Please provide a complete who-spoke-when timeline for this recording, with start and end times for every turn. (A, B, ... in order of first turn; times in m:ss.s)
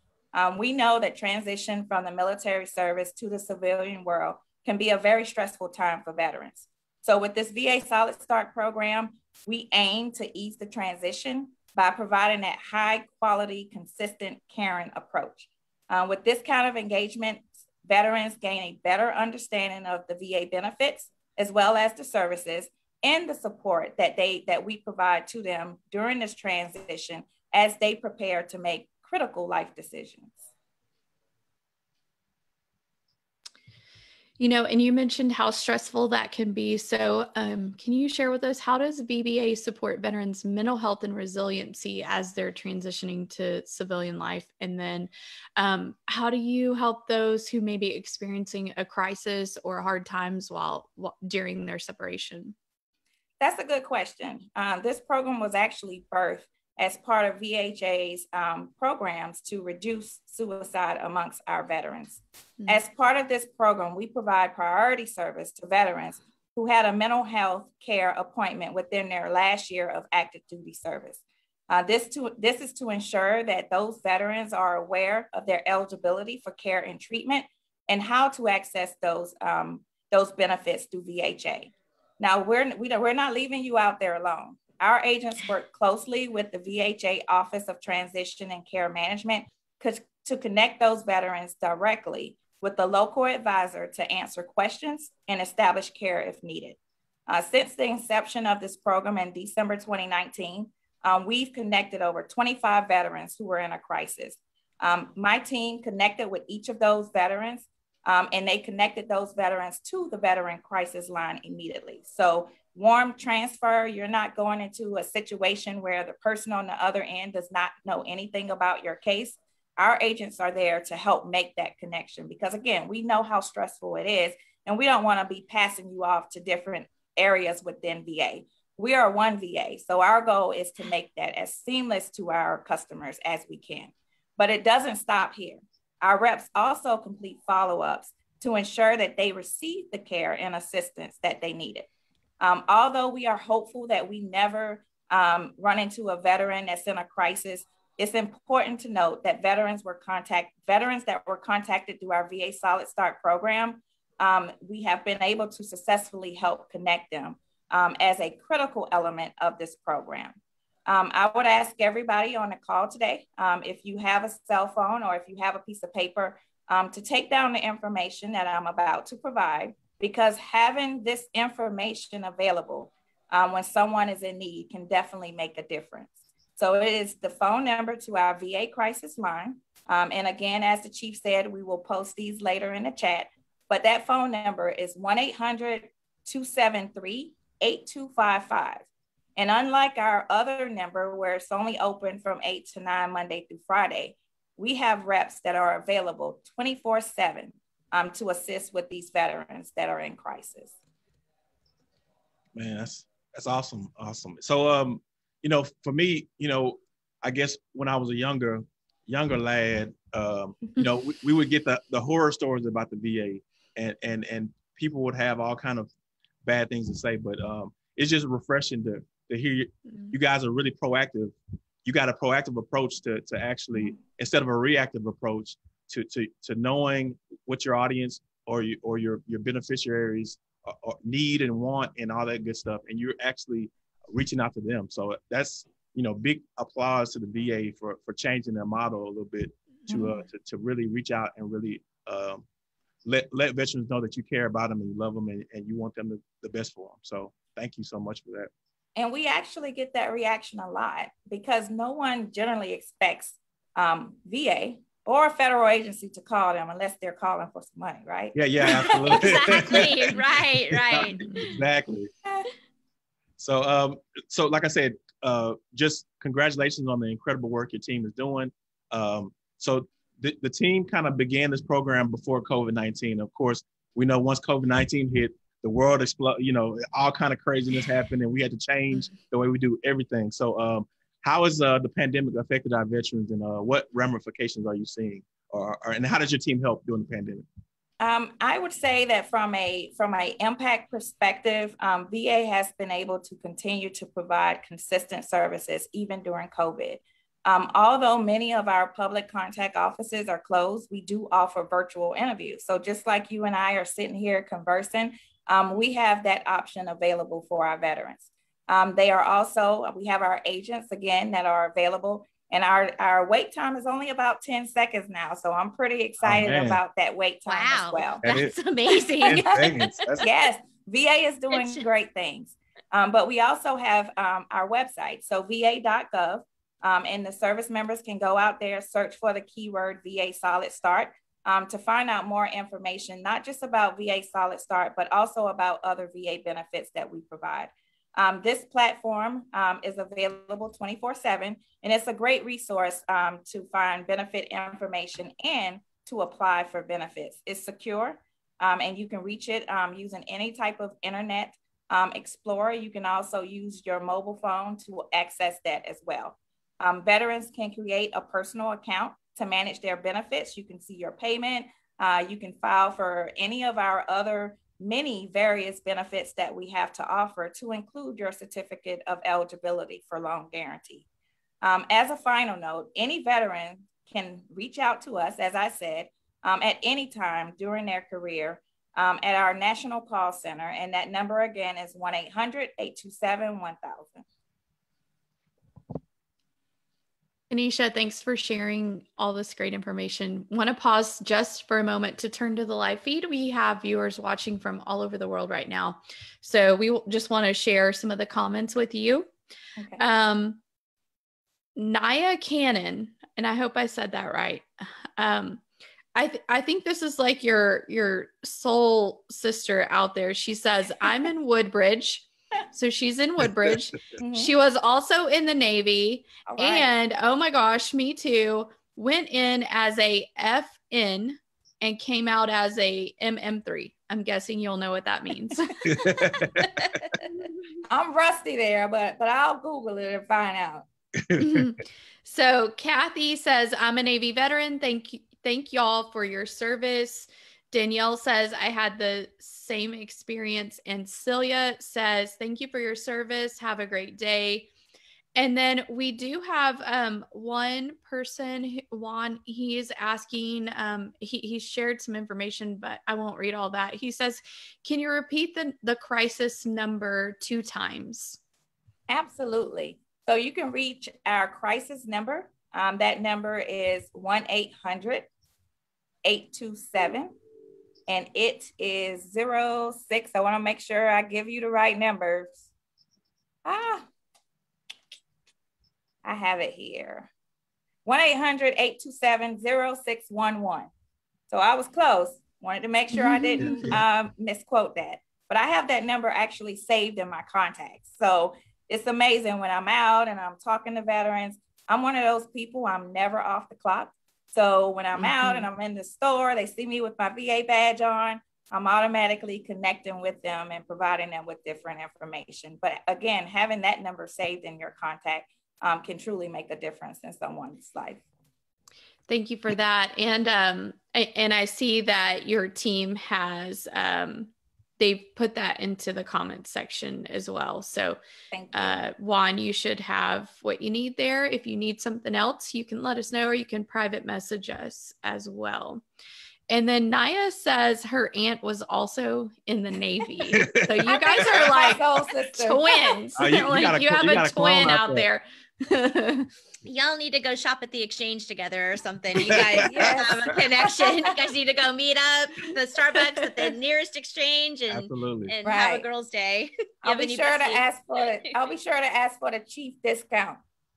0:00.3-0:30.4 A
0:34.4-0:52.6 B
0:53.4-2:21.9 A
2:22.4-3:20.8 A
3:22.6-3:35.9 C
3:36.4-4:02.5 C
4:03.0-4:08.5 C
4:09.0-4:19.8 A
4:18.3-4:20.0 C
4:19.1-4:21.6 D
4:20.9-4:22.1 C
4:21.2-4:21.6 B
4:23.4-4:47.4 C
4:48.0-5:18.2 A
5:16.2-5:16.8 C
5:17.5-5:20.0 D
5:18.2-5:18.5 C
5:19.2-5:20.2 C
5:20.2-6:11.1 A
5:21.5-5:21.8 D
6:11.6-6:24.2 A
6:27.5-6:39.3 B
6:39.8-6:40.0 A
6:40.0-6:40.6 B
6:41.8-6:45.6 B
6:46.2-7:06.7 B
6:54.2-6:54.5 A
6:56.4-6:56.9 A
7:05.8-7:06.7 C
7:07.9-7:10.9 A
7:11.2-7:11.6 C
7:11.4-7:24.7 B
7:25.4-7:38.4 B
7:39.1-7:45.3 A
7:46.2-7:47.4 A
7:48.1-7:52.7 A
7:53.6-7:54.1 A
7:56.2-7:57.3 A
7:58.0-8:00.9 A
8:01.5-8:28.2 A
8:03.2-8:04.0 B
8:15.2-8:15.7 B
8:29.3-8:38.2 B
8:38.5-8:39.0 A
8:38.7-8:46.0 B
8:46.7-8:52.0 B
8:50.5-8:52.0 C
8:51.1-8:53.2 A
8:52.6-8:56.5 B
8:53.4-8:55.3 C
8:56.9-9:08.5 D
8:59.5-9:00.3 C
8:59.8-9:00.6 A
9:04.9-9:05.5 C
9:05.6-9:06.1 A
9:07.0-9:10.6 A